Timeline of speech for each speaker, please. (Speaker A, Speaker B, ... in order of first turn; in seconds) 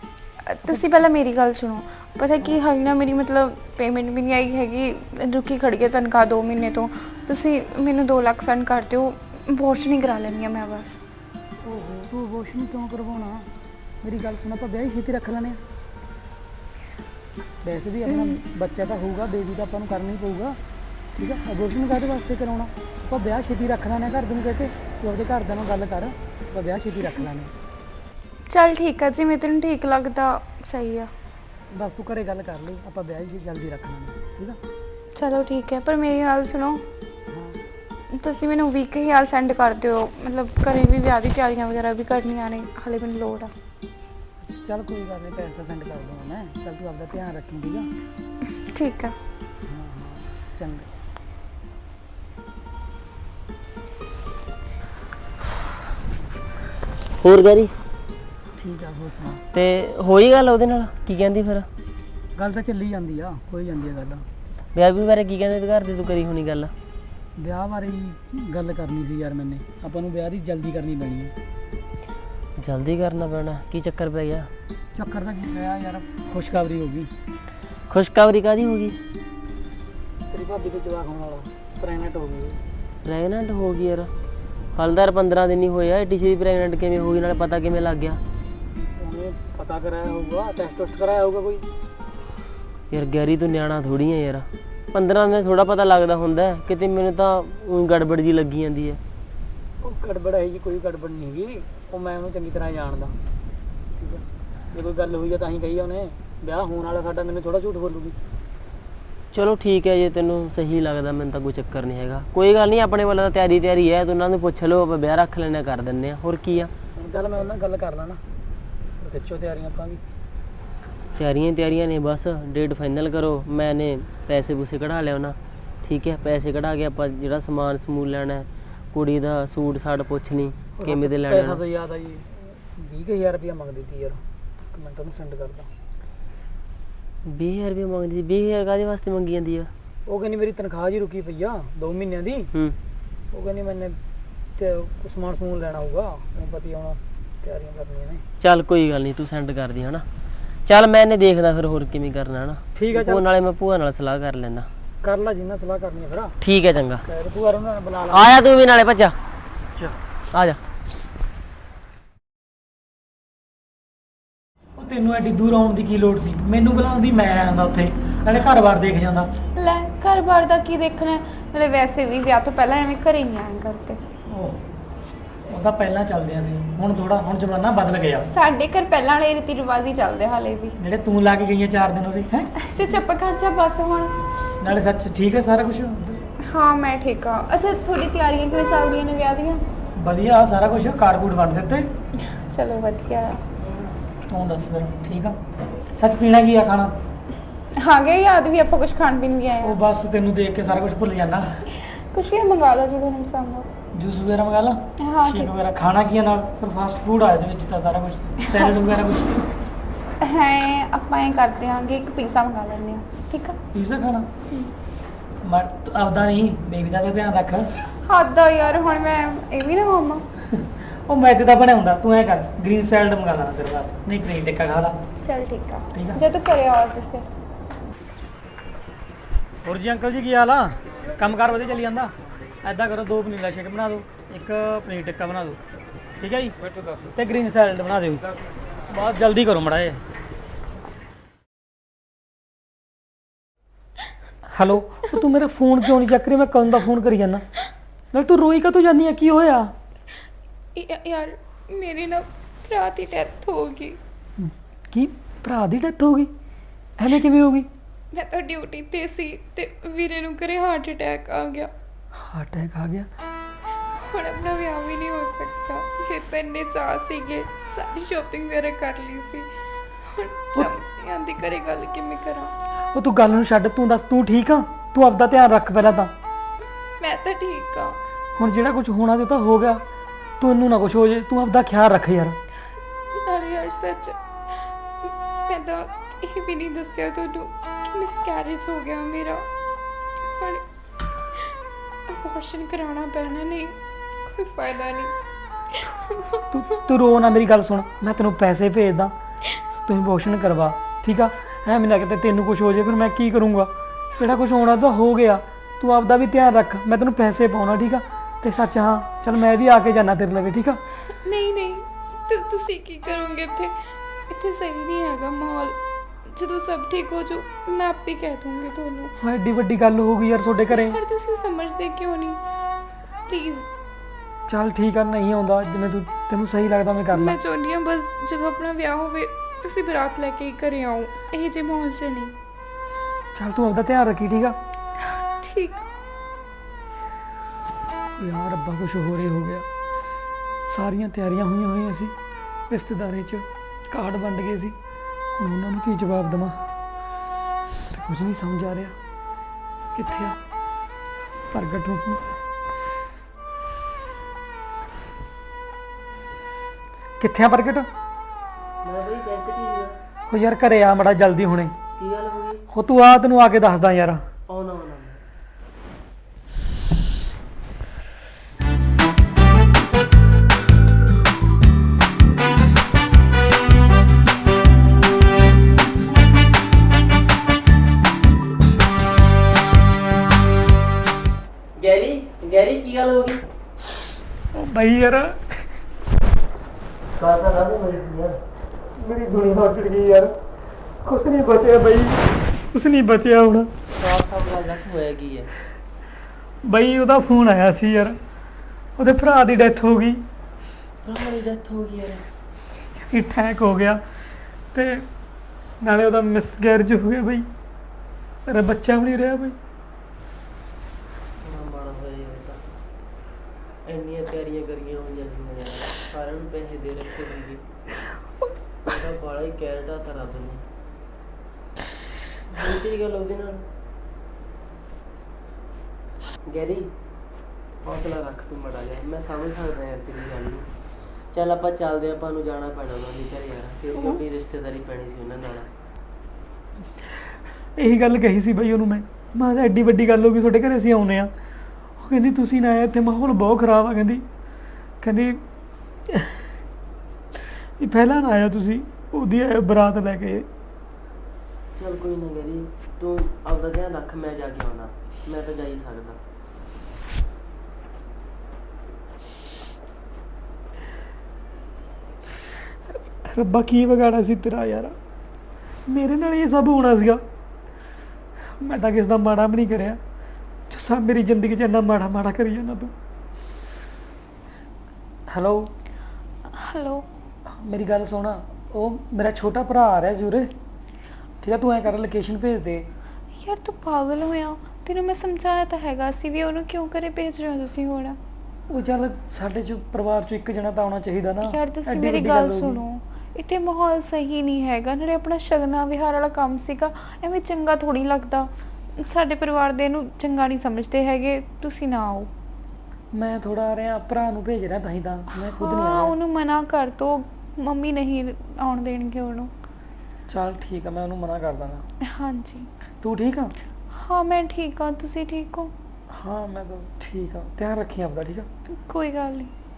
Speaker A: 0.5-11.0, 28.5-31.1, 35.1-36.8, 38.1-43.5, 48.6-49.1, 169.6-174.0, 178.3-180.8, 182.6-184.2, 186.4-189.6, 192.2-193.4, 197.8-199.8, 201.7-203.7, 205.0-205.5, 210.2-213.6, 218.0-220.2, 225.2-227.3, 250.7-254.0, 258.1-261.7, 263.9-269.5, 270.1-272.5, 277.0-278.0, 283.1-284.2, 285.0-289.5, 290.4-290.6, 292.1-295.1, 295.7-296.4, 311.1-313.8, 314.3-319.1, 320.7-322.4, 323.3-323.7, 327.1-332.4, 335.4-335.8, 476.5-477.1, 483.4-488.2, 491.4-502.3, 505.4-509.5, 512.0-512.7, 513.9-515.7, 518.7-519.5
Speaker B: 0.7-1.0, 11.6-13.5, 14.0-15.6, 17.6-20.6, 21.2-27.5, 31.7-34.6, 37.3-37.6, 44.5-47.9, 49.7-50.9, 58.6-59.4, 62.4-64.2, 67.4-71.3, 75.0-77.1, 80.3-82.6, 89.0-91.6, 99.8-103.2, 104.0-108.2, 117.0-118.2, 119.0-120.0, 130.8-135.7, 140.1-142.5, 143.3-144.0, 144.6-148.2, 152.7-153.2, 155.0-156.4, 157.0-158.3, 164.8-169.3, 174.3-174.6, 175.5-178.3, 180.8-182.6, 184.6-186.2, 190.0-191.9, 193.6-195.4, 195.9-197.0, 199.6-201.6, 203.9-209.5, 213.7-214.3, 215.4-217.7, 220.5-225.0, 225.9-226.2, 229.6-235.6, 236.2-236.6, 237.2-238.2, 238.9-240.0, 244.5-247.4, 248.1-249.7, 254.4-256.3, 257.0-257.7, 262.1-263.1, 272.9-276.1, 278.4-279.8, 280.4-282.4, 296.5-299.1, 299.9-310.8, 319.2-321.0, 324.5-327.4, 333.3-334.6, 338.2-339.6, 340.7-342.1, 342.7-344.8, 345.4-346.6, 347.9-348.9, 349.9-350.4, 351.5-352.3, 357.2-357.9, 360.3-361.7, 362.7-364.2, 384.5-385.6, 389.0-390.3, 391.0-393.7, 396.6-398.2, 399.0-400.2, 403.0-404.0, 404.7-405.1, 405.8-407.4, 408.4-409.6, 437.8-441.3, 442.0-444.2, 445.0-445.4, 446.1-446.4, 447.8-450.5, 463.1-464.9, 465.9-467.2, 468.6-470.0, 470.7-472.9, 475.3-475.7, 477.5-480.5, 481.4-482.9, 488.7-492.8, 503.1-506.1, 510.3-511.8, 513.0-513.5, 516.1-518.5
Speaker C: 57.2-57.7, 59.5-61.7, 64.7-66.7, 72.6-74.5, 77.9-79.0, 83.0-84.1, 84.7-88.2, 92.9-99.0, 109.3-116.7, 121.2-131.6, 137.2-139.7, 148.4-150.0, 150.7-154.7, 156.4-157.0, 158.1-159.1, 160.3-160.6, 358.8-359.9, 362.0-362.6, 364.5-365.2, 381.8-383.4, 387.1-388.4, 393.9-395.5, 401.0-402.3, 411.4-412.6, 413.8-417.6, 418.8-420.6, 422.5-423.6, 426.4-426.9, 427.8-430.7, 431.3-435.7, 451.8-456.2